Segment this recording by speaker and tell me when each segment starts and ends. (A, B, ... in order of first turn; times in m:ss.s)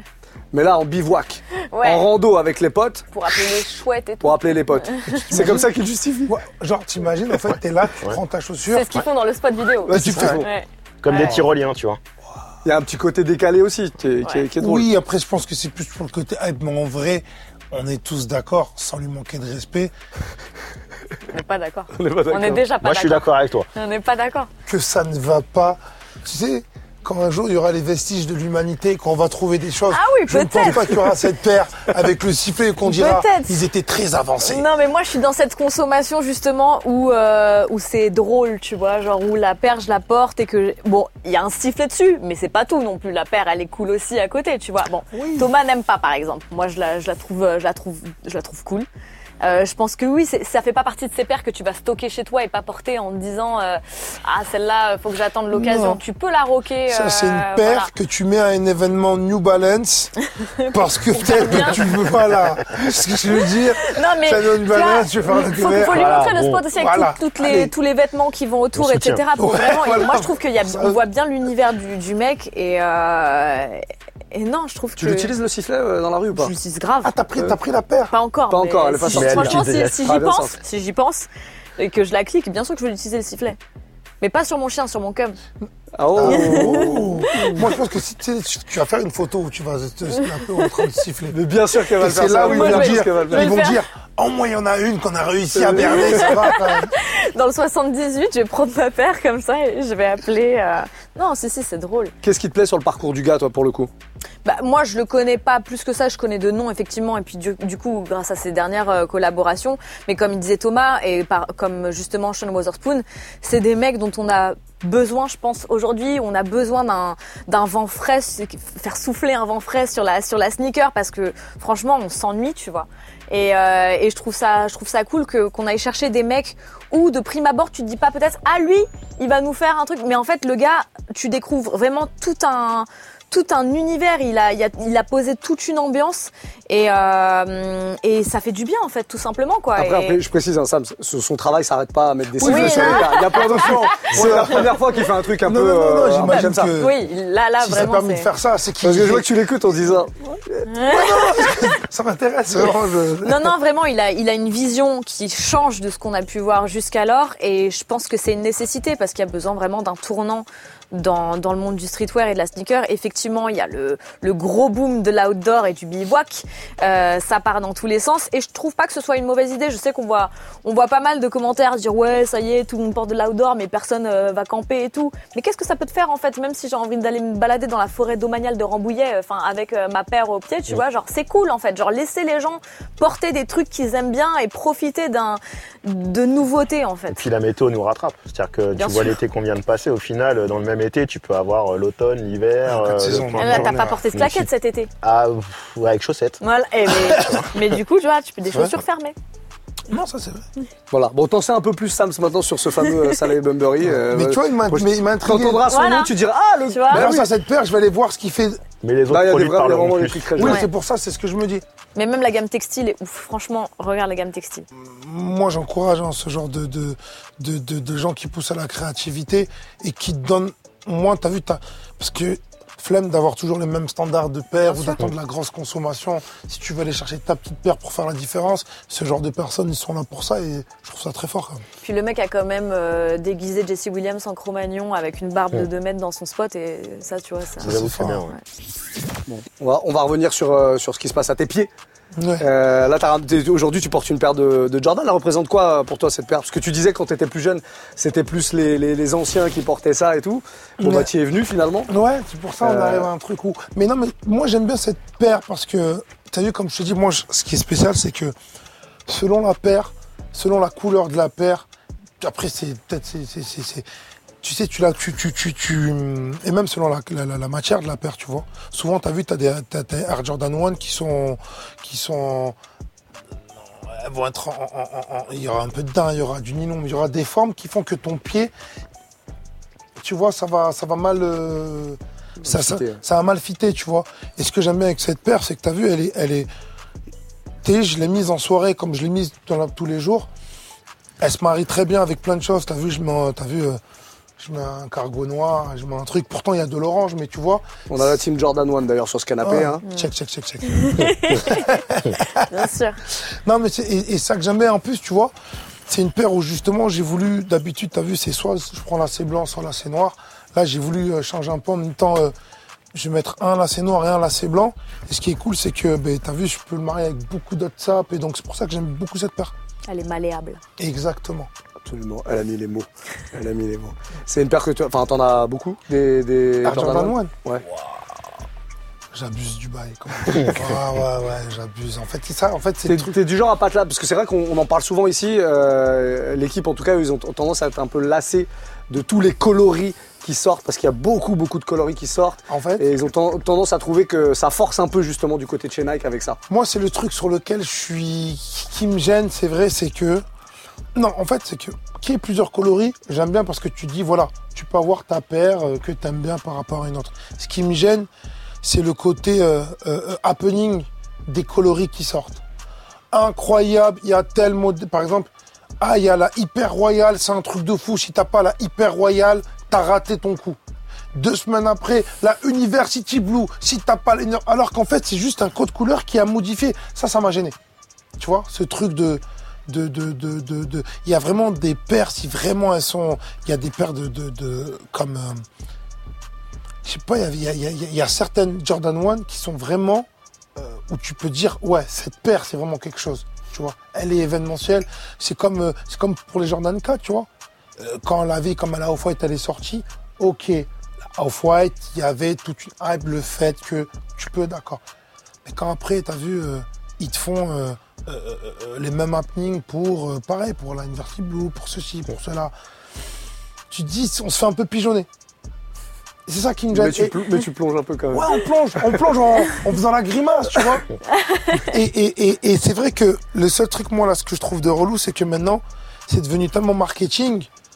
0:00.5-0:03.1 A
0:01.7-0:02.1 B
0:03.1-0:05.4 B
0:04.2-0:06.3 A
0:05.1-0:05.7 C
0:06.3-0:09.0 C
0:08.7-0:11.4 B
0:09.8-0:10.5 A
0:09.9-0:10.5 C
0:11.0-0:12.0 D
0:12.6-0:14.9 A
0:14.6-0:19.9 C
0:21.3-0:24.5 B
0:21.9-0:22.6 A
0:22.8-0:23.7 D
0:24.6-0:34.7 C
0:29.9-0:31.1 B
0:32.8-0:33.6 B
0:34.4-0:48.9 B
0:45.1-0:45.5 C
0:49.4-0:57.9 B
0:55.5-0:56.0 C
0:56.9-1:00.1 C
1:00.4-1:02.0 B
1:00.7-1:07.7 C
1:03.4-1:15.3 B
1:05.8-1:06.7 D
1:08.8-1:09.2 D
1:09.4-1:11.0 C
1:15.0-1:16.5 A
1:16.4-1:17.1 B
1:17.0-1:18.2 C
1:18.1-1:23.6 B
1:18.5-1:20.6 A
1:19.1-1:20.2 D
1:24.2-1:25.4 B
1:26.0-1:27.5 A
1:26.2-1:31.4 C
1:26.2-1:27.7 B
1:31.3-1:33.6 A
1:32.0-1:36.9 C
1:32.4-1:33.8 B
1:35.5-1:36.4 A
1:35.9-1:42.1 B
1:42.2-1:43.9 A
1:44.4-2:20.2 B
2:19.8-2:26.7 A
2:22.4-2:24.8 C
2:22.4-2:23.8 B
2:25.4-2:27.0 C
2:26.2-2:28.3 B
2:27.6-2:29.3 C
2:28.8-2:30.7 A
2:30.7-2:31.8 B
2:30.9-2:33.6 C
2:33.2-3:07.3 B
3:07.1-3:14.5 D
3:08.8-3:09.2 B
3:12.7-3:14.0 C
3:13.4-3:14.9 B
3:15.0-3:16.4 D
3:16.4-3:19.2 B
3:17.0-3:17.4 C
3:17.0-3:17.7 D
3:18.5-3:18.8 C
3:19.9-3:20.5 C
3:20.9-3:27.3 A
3:23.8-3:25.7 C
3:25.7-3:26.1 B
3:26.7-3:27.1 B
3:26.9-3:28.6 C
3:28.8-3:30.4 D
3:29.1-3:30.7 A
3:30.4-3:31.6 C
3:30.4-3:30.7 B
3:32.0-3:34.7 B
3:34.8-3:51.6 C
3:44.7-3:45.0 B
3:51.8-3:58.4 B
3:57.6-3:58.3 D
3:57.6-3:58.2 C
3:59.3-4:01.7 A
4:02.2-4:02.4 C
4:02.4-4:11.9 A
4:10.8-4:11.1 C
4:11.9-4:18.4 C
4:12.6-4:13.1 A
4:19.1-4:21.7 C
4:22.2-4:23.9 C
4:24.4-4:32.6 C
4:33.5-4:38.5 C
4:40.0-4:46.5 C
4:42.4-4:43.0 A
4:47.6-4:50.3 C
4:51.2-4:53.8 C
4:54.4-4:58.0 C
4:57.9-4:59.8 A
4:59.4-5:02.5 C
5:00.7-5:01.7 B
5:02.5-5:03.0 B
5:03.3-5:05.3 C
5:05.9-5:12.3 C
5:12.9-5:19.5 C
5:19.9-5:20.6 B
5:20.8-5:21.5 C
5:21.8-5:27.6 A
5:26.6-5:27.3 C
5:29.1-5:33.1 C
5:32.9-5:46.4 A
5:42.5-5:42.9 C
5:46.5-5:50.2 C
5:51.0-5:58.1 C
5:58.6-6:02.4 C
6:03.1-6:10.6 C
6:11.1-6:17.6 C
6:18.2-6:25.4 C
6:26.8-6:44.8 C
6:45.4-6:52.5 C
6:53.7-6:55.1 C
6:56.3-6:57.2 C
6:56.7-6:59.0 A
6:58.1-7:00.9 C
7:01.7-7:07.5 C